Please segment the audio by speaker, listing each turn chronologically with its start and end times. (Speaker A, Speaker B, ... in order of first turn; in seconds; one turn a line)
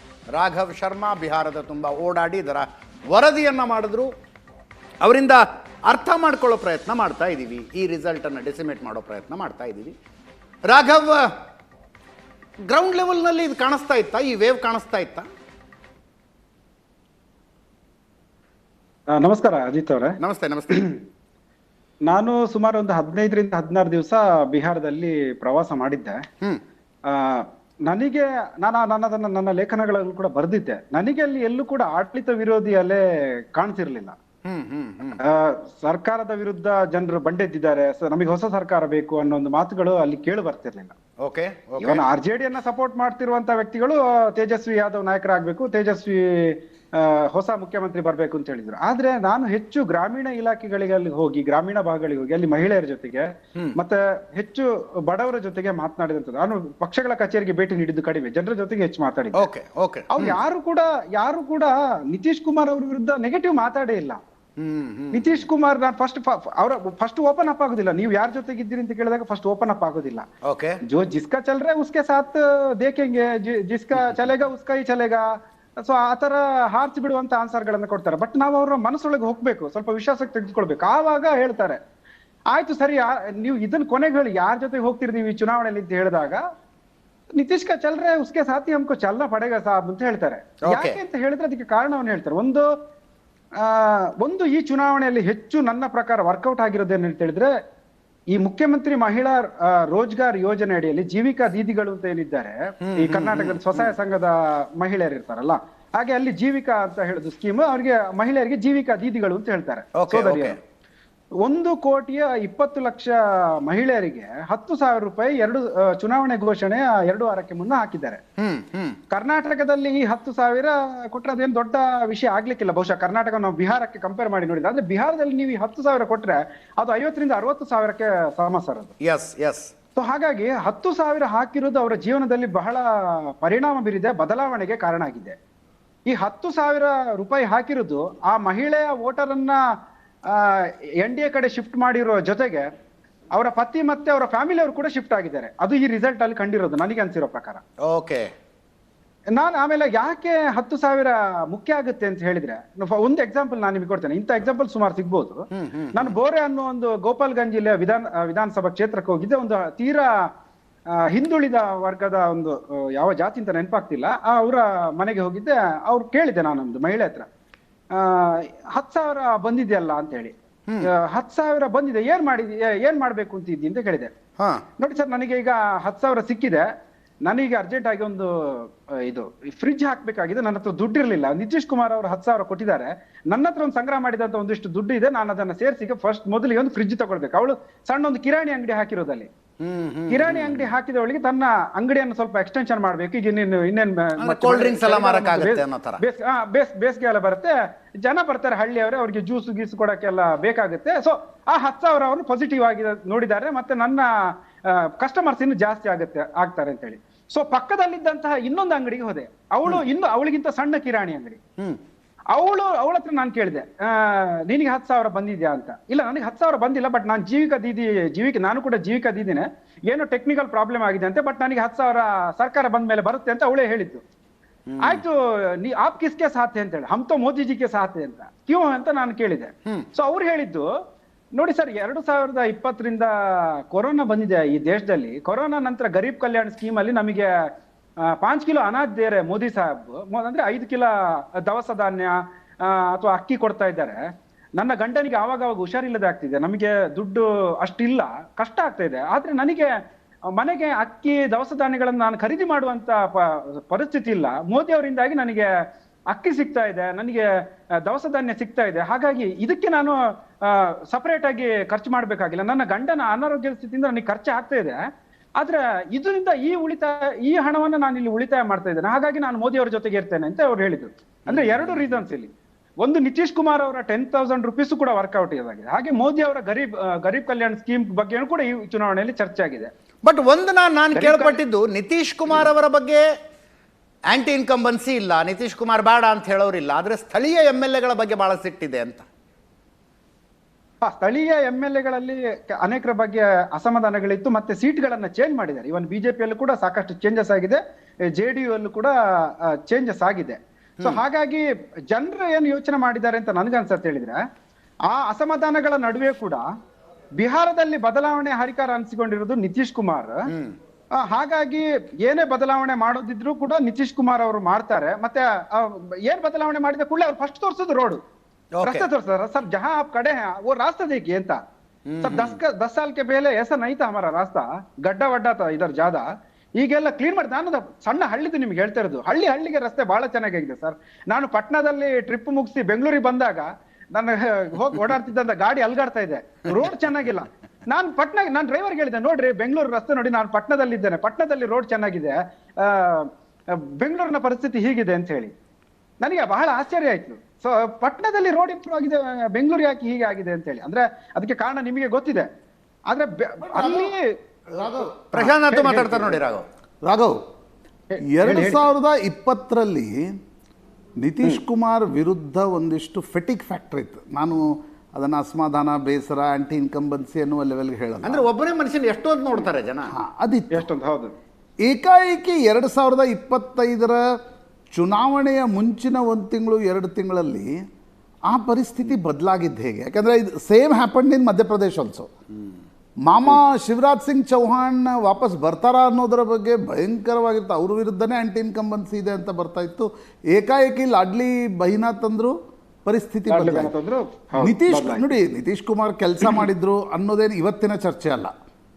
Speaker A: 0.3-4.1
Speaker A: 5.0-9.9
Speaker A: 10.7-11.2
Speaker A: 12.7-15.3
Speaker B: 19.1-20.1
Speaker A: 20.2-20.9
Speaker B: 22.1-26.2
Speaker B: 27.1-33.0
Speaker B: 33.5-34.1
Speaker A: 34.4-35.2
Speaker B: 35.2-40.9
Speaker A: 41.2-42.0
Speaker B: 41.8-59.5
Speaker A: 59.4-60.4
Speaker B: 60.1-64.2
Speaker A: 64.6-65.4
Speaker B: 65.1-70.2
Speaker A: 70.4-70.8
Speaker B: 70.9-75.3
Speaker B: 75.8-81.8
Speaker B: 82.5-86.4
Speaker B: 87.3-92.7
Speaker A: 90.7-91.0
Speaker B: 93.6-97.5
Speaker B: 98.3-110.6
Speaker A: 102.8-103.9
Speaker A: 110.0-110.5
Speaker B: 111.4-118.2
Speaker A: 118.4-119.0
Speaker B: 119.1-128.9
Speaker A: 129.0-129.7
Speaker B: 129.9-132.9
Speaker B: 133.4-135.3
Speaker B: 136.1-139.6
Speaker B: 140.3-142.7
Speaker B: 143.3-147.6
Speaker A: 147.8-148.3
Speaker B: 149.3-155.4
Speaker A: 155.5-156.1
Speaker B: 155.9-160.1
Speaker B: 161.1-167.2
Speaker B: 167.9-170.3
Speaker B: 170.9-174.1
Speaker A: 174.4-174.6
Speaker B: 174.8-176.6
Speaker B: 177.3-189.3
Speaker A: 189.6-190.7
Speaker B: 190.1-204.1
Speaker A: 194.2-196.0
Speaker B: 204.7-211.4
Speaker B: 212.3-224.0
Speaker A: 224.7-225.0
Speaker B: 224.8-230.7
Speaker B: 231.4-237.3
Speaker B: 238.1-240.9
Speaker B: 241.4-244.0
Speaker B: 244.6-249.7
Speaker B: 250.3-255.5
Speaker B: 256.1-257.2
Speaker B: 257.8-264.8
Speaker B: 265.4-272.3
Speaker A: 271.3-272.0
Speaker B: 272.8-279.7
Speaker A: 280.0-283.0
Speaker B: 280.9-281.4
Speaker A: 284.1-289.1
Speaker B: 290.8-297.6
Speaker B: 298.1-298.9
Speaker B: 299.7-304.2
Speaker B: 304.9-306.4
Speaker B: 307.2-310.2
Speaker A: 310.3-310.5
Speaker B: 311.0-318.0
Speaker A: 318.6-318.9
Speaker B: 318.6-321.4
Speaker A: 321.9-322.4
Speaker B: 322.0-326.0
Speaker B: 326.6-343.1
Speaker B: 343.8-345.3
Speaker B: 346.0-352.3
Speaker B: 352.9-354.0
Speaker C: 353.5-353.9
Speaker C: 354.5-355.3
Speaker A: 355.1-356.4
Speaker B: 355.2-356.2
Speaker C: 356.8-357.2
Speaker B: 357.9-358.7
Speaker C: 358.1-360.1
Speaker C: 361.0-368.2
Speaker A: 368.0-369.9
Speaker C: 369.9-370.6
Speaker B: 370.5-371.1
Speaker C: 371.6-374.0
Speaker C: 374.7-377.5
Speaker C: 378.3-382.1
Speaker C: 383.1-392.3
Speaker C: 392.9-393.7
Speaker B: 393.3-395.1
Speaker C: 394.4-398.3